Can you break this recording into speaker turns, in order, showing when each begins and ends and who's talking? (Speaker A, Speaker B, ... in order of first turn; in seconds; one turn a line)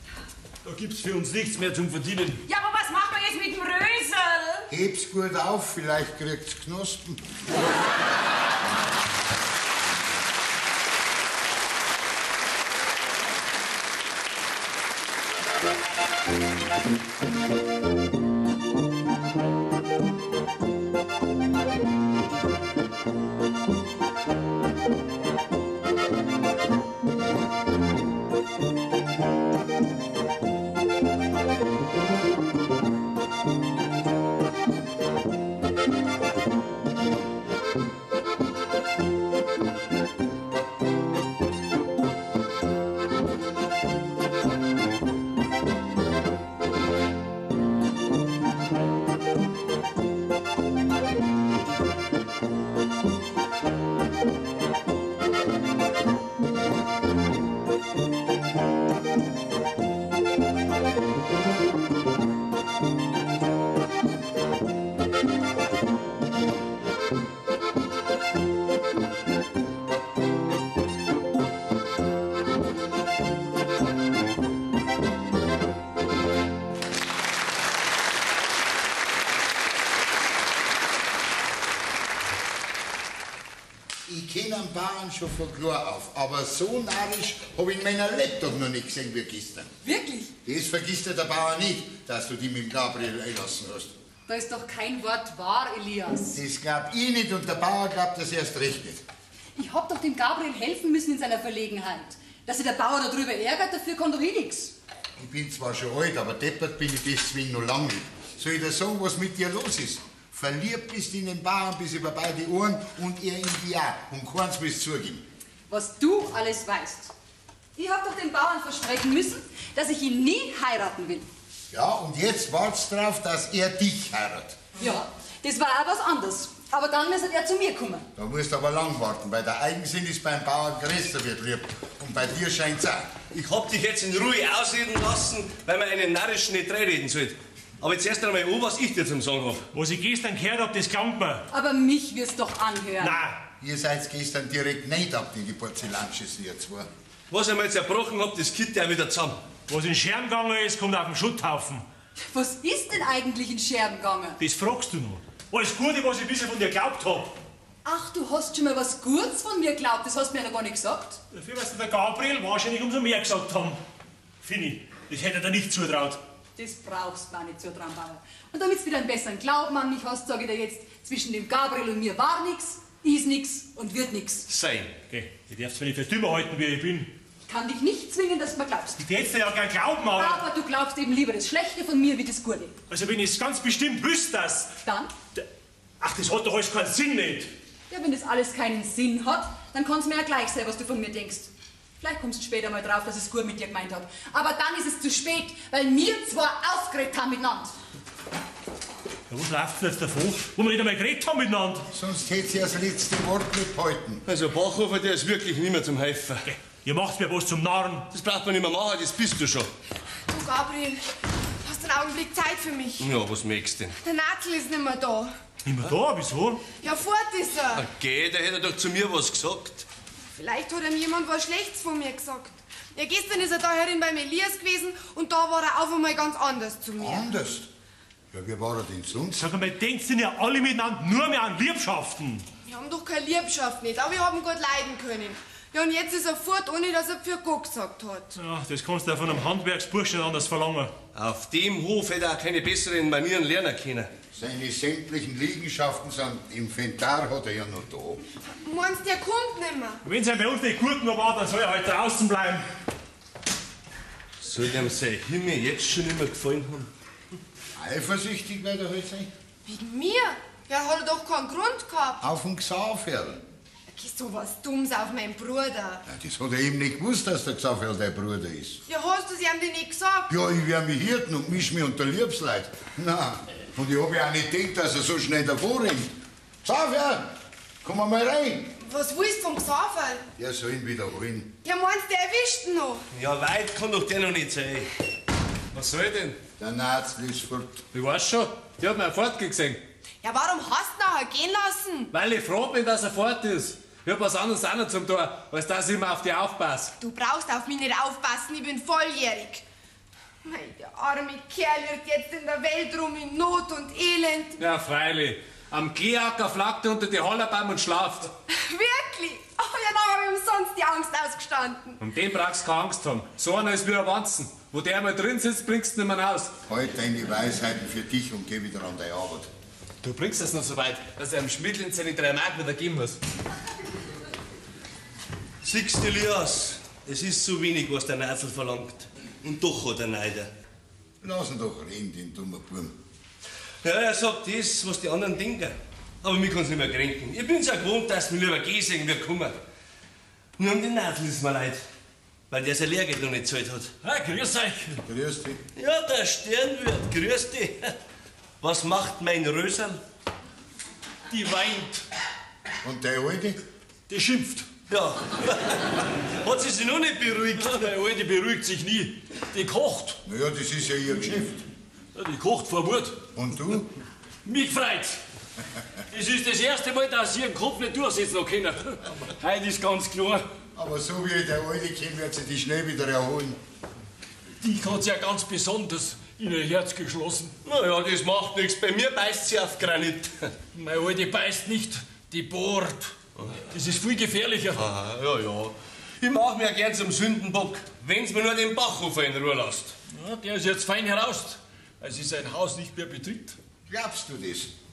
Speaker A: 0.6-2.4
Speaker B: 2.5-4.7
Speaker C: 4.7-7.2
Speaker C: 84.1-89.7
Speaker D: 89.8-90.3
Speaker C: 90.5-93.9
Speaker D: 94.3-96.4
Speaker C: 96.3-99.0
Speaker D: 99.6-104.7
Speaker C: 105.2-115.2
Speaker D: 115.7-117.1
Speaker D: 117.8-121.3
Speaker C: 121.7-124.6
Speaker D: 124.8-128.1
Speaker C: 128.2-133.1
Speaker E: 133.3-139.7
Speaker F: 139.7-141.5
Speaker D: 141.5-143.2
Speaker F: 143.0-143.4
Speaker C: 143.6-146.9
Speaker E: 147.3-149.4
Speaker F: 149.7-151.8
Speaker D: 152.2-154.4
Speaker F: 154.4-157.3
Speaker D: 157.8-161.2
Speaker F: 161.3-163.8
Speaker F: 164.4-166.2
Speaker D: 166.6-174.4
Speaker E: 174.5-174.9
Speaker F: 175.1-177.1
Speaker D: 177.5-179.0
Speaker F: 179.0-180.4
Speaker D: 180.1-182.8
Speaker F: 182.9-184.7
Speaker D: 184.8-185.1
Speaker F: 186.0-187.5
Speaker D: 187.9-197.7
Speaker F: 199.3-201.9
Speaker C: 201.9-204.2
Speaker E: 204.3-206.5
Speaker F: 206.4-208.1
Speaker E: 208.1-209.7
Speaker G: 210.3-211.1
Speaker G: 211.6-213.1
Speaker E: 213.0-214.0
Speaker G: 214.0-215.4
Speaker F: 215.7-216.6
Speaker G: 216.8-217.9
Speaker E: 217.7-219.9
Speaker G: 220.3-227.3
Speaker C: 227.0-227.7
Speaker C: 228.3-229.5
Speaker F: 229.4-232.4
Speaker G: 232.7-238.4
Speaker F: 238.4-240.9
Speaker E: 241.1-244.1
Speaker C: 244.3-248.2
Speaker G: 248.6-250.0
Speaker F: 250.1-252.6
Speaker E: 254.4-256.9
Speaker C: 257.8-259.3
Speaker G: 259.7-262.2
Speaker C: 262.2-263.4
Speaker G: 263.9-266.0
Speaker C: 266.1-268.8
Speaker G: 268.9-270.3
Speaker C: 270.3-278.7
Speaker G: 278.8-280.2
Speaker C: 280.4-281.5
Speaker G: 281.6-283.0
Speaker E: 283.1-284.9
Speaker H: 285.7-286.4
Speaker C: 286.6-287.8
Speaker H: 287.9-289.8
Speaker G: 290.2-292.1
Speaker H: 292.1-296.9
Speaker G: 297.0-299.6
Speaker G: 300.4-304.6
Speaker H: 304.6-308.3
Speaker G: 308.5-312.0
Speaker H: 312.0-316.6
Speaker C: 316.7-319.5
Speaker H: 320.0-323.2
Speaker E: 325.6-330.5
Speaker C: 331.2-333.0
Speaker E: 333.8-339.6
Speaker E: 340.6-341.8
Speaker E: 342.5-343.9
Speaker A: 344.0-345.0
Speaker C: 345.1-345.6
Speaker E: 345.8-347.9
Speaker E: 348.6-350.0
Speaker A: 351.3-352.1
Speaker C: 352.8-353.6
Speaker A: 354.1-354.7
Speaker E: 354.9-357.9
Speaker A: 357.6-360.2
Speaker C: 360.2-361.6
Speaker A: 362.1-363.2
Speaker C: 363.3-363.9
Speaker A: 364.4-365.2
Speaker A: 366.1-370.4
Speaker C: 370.8-373.6
Speaker A: 374.6-377.6
Speaker E: 377.6-380.5
Speaker A: 380.8-383.2
Speaker A: 383.7-384.9
Speaker E: 384.8-389.9
Speaker A: 390.1-393.6
Speaker C: 393.9-394.7